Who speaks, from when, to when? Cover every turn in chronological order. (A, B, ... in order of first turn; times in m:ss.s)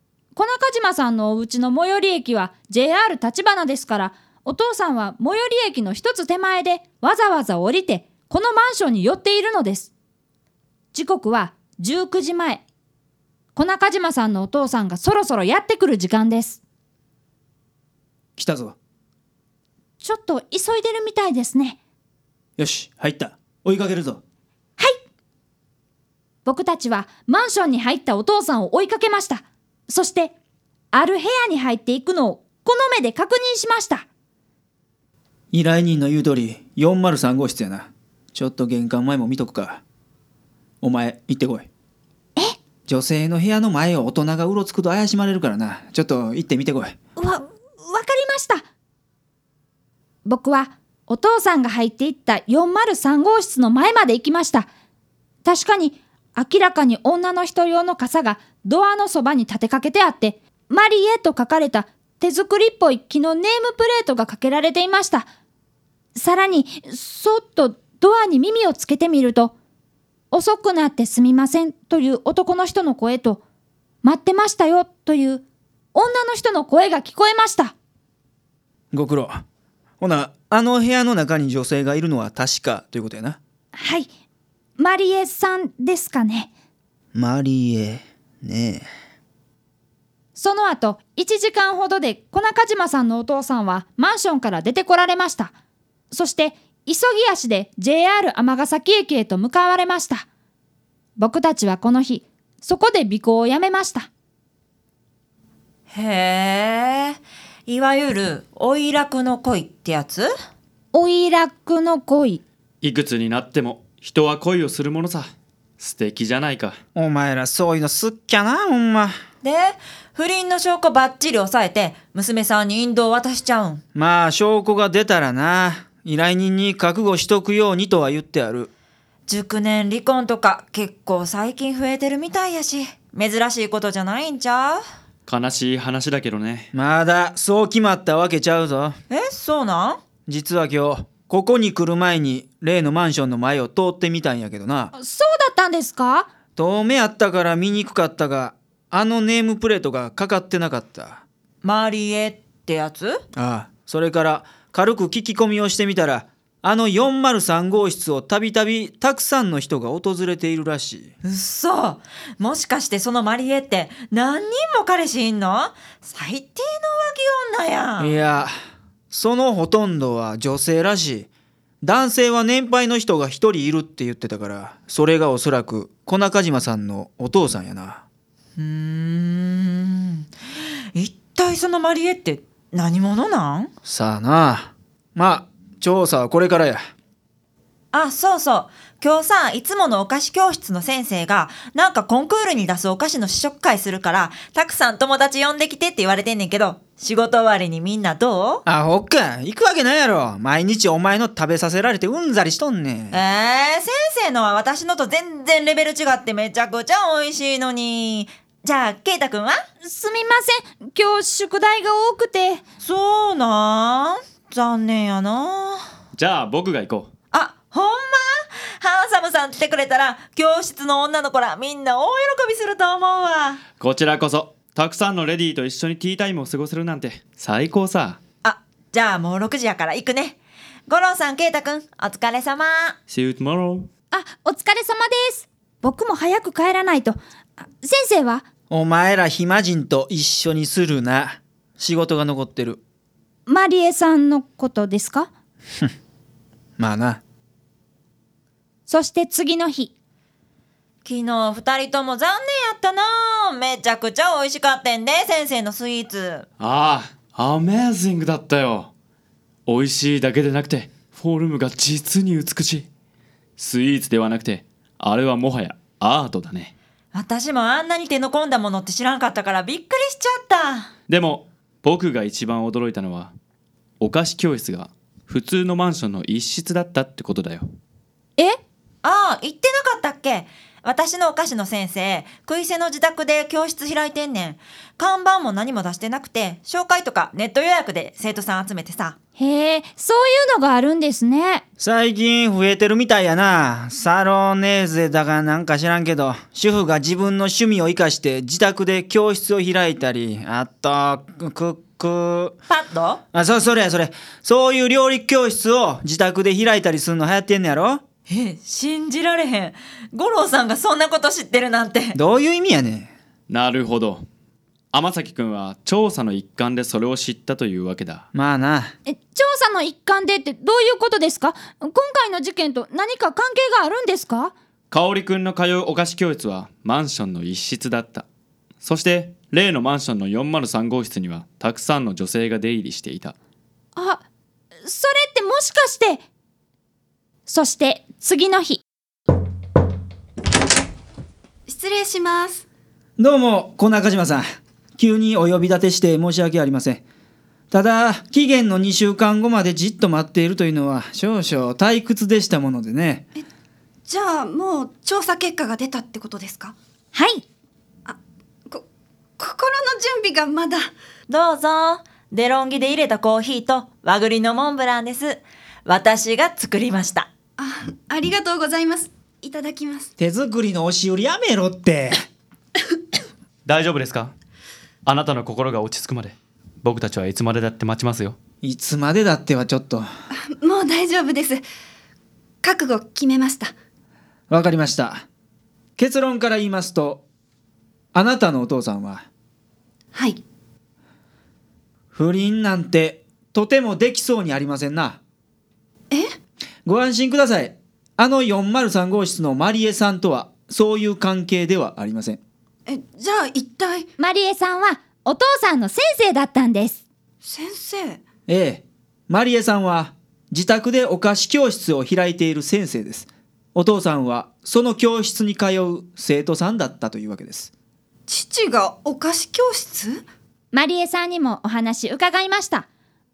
0:00.3-0:09.9 A
0:10.9-0:12.6 A
0:13.5-0:16.6 A
0:18.4-0:18.8 B
0:20.0-0:21.8 A
0:22.6-0:24.2 B
0:26.4-0:30.3 A
0:30.9-0:34.0 A
0:35.5-0:39.8 B
0:40.8-0:41.7 B
0:42.9-0:46.9 B
0:47.2-0:48.6 A
0:50.2-0:54.7 A
0:55.4-1:05.3 A
1:06.1-1:09.5 A
1:10.3-1:13.4 A
1:14.0-1:15.4 A
1:15.9-1:17.7 A
1:18.9-1:19.4 B
1:20.0-1:23.4 B
1:23.7-1:24.1 A
1:24.8-1:26.5 A
1:27.1-1:28.9 B
1:30.3-1:35.5 A
1:36.1-1:40.3 A
1:41.2-1:44.1 A
1:45.9-1:50.3 C
1:50.9-1:52.4 A
1:52.8-1:56.8 D
1:56.9-1:59.2 B
1:59.4-2:03.8 C
2:03.9-2:08.7 B
2:09.3-2:14.8 C
2:15.2-2:16.7 D
2:16.7-2:19.0 B
2:19.1-2:20.0 C
2:20.3-2:24.9 B
2:24.9-2:26.3 A
2:26.6-2:31.2 B
2:31.6-2:33.2 C
2:33.4-2:41.1 B
2:41.2-2:48.2 C
2:48.0-2:48.5 B
2:49.1-2:51.3 B
2:51.8-2:58.0 B
2:58.6-3:00.3 C
3:00.9-3:03.7 C
3:03.8-3:06.8 B
3:07.9-3:18.6 C
3:18.6-3:23.2 B
3:23.1-3:29.6 C
3:29.8-3:32.6 A
3:32.8-3:35.8 C
3:36.1-3:37.1 D
3:37.3-3:43.6 C
3:43.8-3:48.2 D
3:48.4-3:53.0 C
3:53.1-3:53.9 D
3:54.1-3:58.4 A
3:58.7-4:02.8 B
4:03.4-4:05.3 A
4:06.8-4:07.2 B
4:08.8-4:09.9 A
4:11.0-4:16.4 C
4:16.6-4:18.9 D
4:19.6-4:22.9 D
4:23.6-4:26.7 D
4:27.1-4:30.9 C
4:31.1-4:33.3 D
4:34.0-4:37.6 D
4:39.0-4:49.2 C
4:49.4-4:51.6 A
4:51.8-5:02.6 B
5:02.7-5:03.2 C
5:03.3-5:08.0 B
5:08.3-5:12.2 C
5:12.1-5:13.1 B
5:13.5-5:14.2 D
5:14.9-5:18.2 D
5:18.3-5:18.9 B
5:19.0-5:24.5 A
5:24.9-5:28.2 D
5:28.8-5:33.3 D
5:33.9-5:34.2 A
5:34.8-5:36.2 A
5:37.5-5:38.8 A
5:41.7-5:42.6 E
5:43.2-5:44.4 B
5:45.0-5:47.0 B
5:47.7-5:53.3 B
5:54.0-5:56.7 E
5:57.1-5:57.4 A
5:59.4-6:00.9 E
6:01.3-6:07.3 C
6:07.6-6:10.1 E
6:10.2-6:12.2 B
6:13.6-6:14.3 D
6:15.0-6:18.4 D
6:18.6-6:20.1 B
6:20.5-6:21.6 E
6:22.6-6:23.7 E
6:24.5-6:25.2 B
6:26.0-6:27.2 B
6:28.1-6:29.2 B
6:30.1-6:30.4 E
6:32.1-6:35.2 B
6:36.8-6:42.4 B
6:42.8-6:44.1 E
6:44.2-6:47.0 A
6:47.4-6:48.2 E
6:48.5-6:57.7 B
6:58.3-7:00.2 E
7:00.7-7:02.9 A